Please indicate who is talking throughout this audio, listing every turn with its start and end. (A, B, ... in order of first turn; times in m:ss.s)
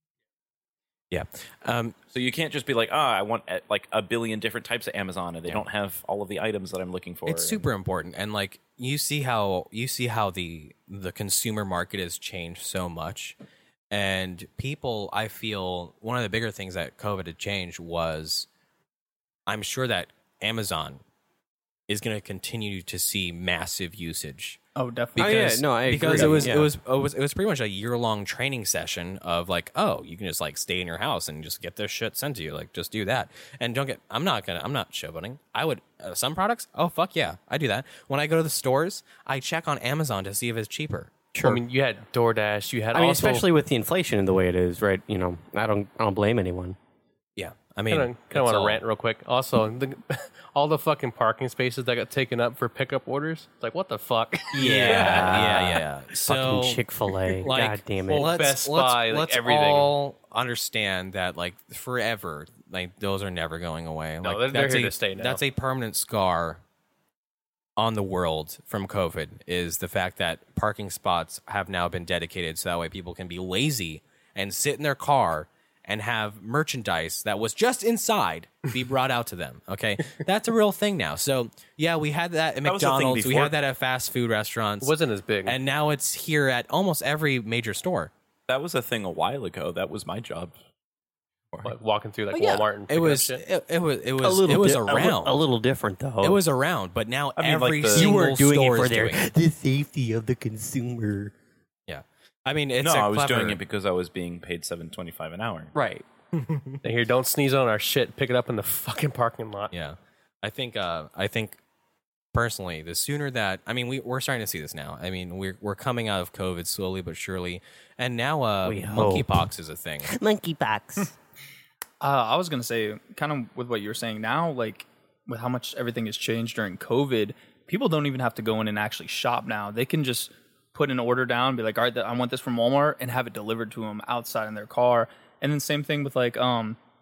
0:01.1-0:02.0 A
0:02.1-0:07.6 B
0:07.2-0:13.4 A
0:13.9-0:18.5 A
0:19.5-0:21.0 A
0:21.9-0:24.6 A
0:24.8-0:26.4 C
0:25.2-0:26.7 D
0:25.2-0:41.1 A
0:41.3-0:41.6 D
0:41.4-0:43.5 E
0:42.9-0:46.8 D
0:47.4-0:48.8 A
0:47.9-0:55.6 E
0:54.5-0:58.3 D
0:54.6-0:56.8 A
0:57.4-1:06.6 A
0:58.1-0:59.9 E
1:04.2-1:05.4 E
1:07.8-1:24.9 A
1:22.6-1:23.6 B
1:24.8-1:25.6 E
1:25.4-1:28.1 A
1:28.5-1:30.5 B
1:31.6-1:33.4 E
1:32.4-1:35.4 A
1:34.2-1:36.4 D
1:36.2-1:39.2 A
1:37.4-1:38.1 B
1:37.9-1:41.3 D
1:41.9-1:43.6 A
1:42.8-1:45.7 B
1:45.7-1:46.0 D
1:46.4-1:46.8 A
1:46.8-1:49.7 E
1:49.7-1:51.6 A
1:52.3-2:00.1 A
1:58.6-1:59.5 D
2:00.0-2:01.1 D
2:02.0-2:16.8 C